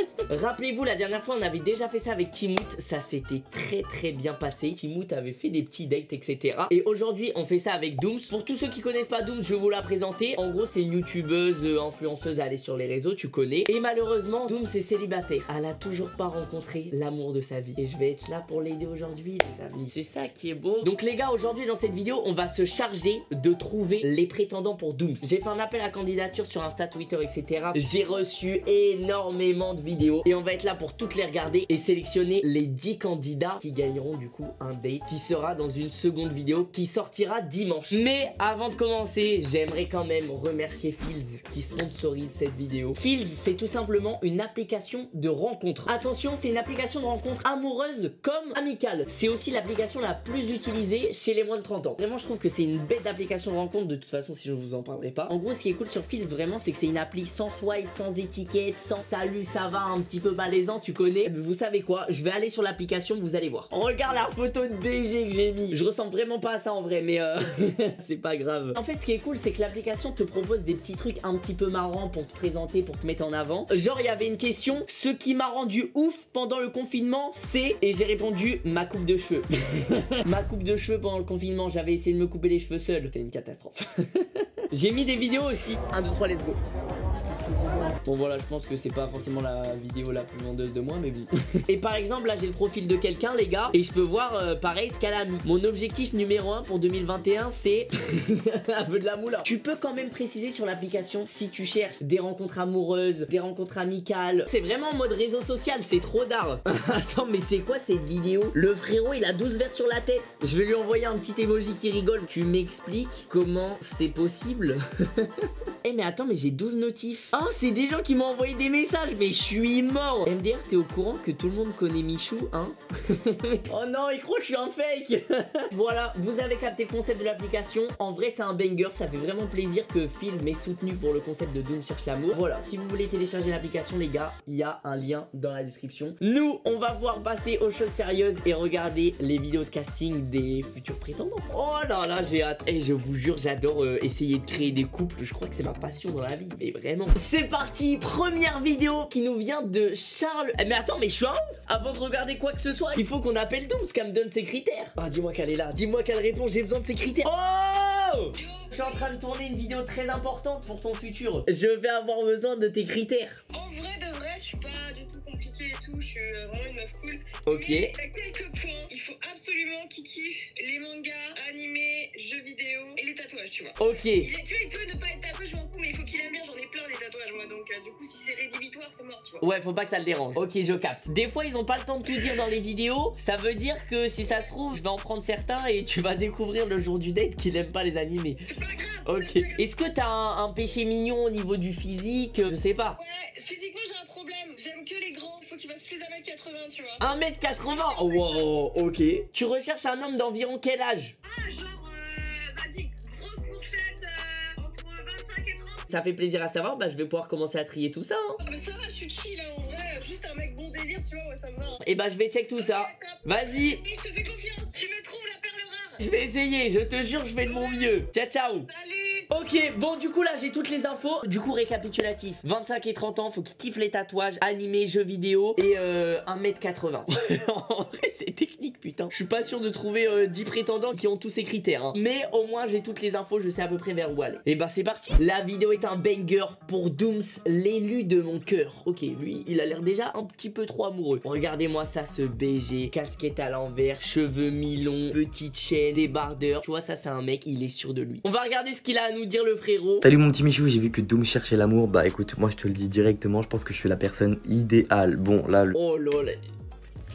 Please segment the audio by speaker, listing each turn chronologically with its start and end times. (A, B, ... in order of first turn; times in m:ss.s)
0:00.3-1:26.6 A
1:28.0-1:55.3 A
1:55.8-2:43.4 A
2:38.3-2:39.1 B
2:43.5-2:59.4 B
2:47.4-2:47.9 A
2:53.8-2:54.3 A
2:59.4-3:08.4 A
3:08.5-3:09.6 B
3:09.0-3:13.0 A
3:13.0-3:18.5 B
3:17.0-3:21.2 A
3:21.2-3:25.9 B
3:25.9-3:28.4 A
3:28.4-3:31.8 B
3:31.8-3:33.8 A
3:32.5-3:36.0 B
3:36.0-3:38.7 A
3:37.4-3:38.1 B
3:38.7-3:39.3 B
3:39.3-4:10.1 A
4:10.0-4:15.7 C
4:15.7-4:16.4 A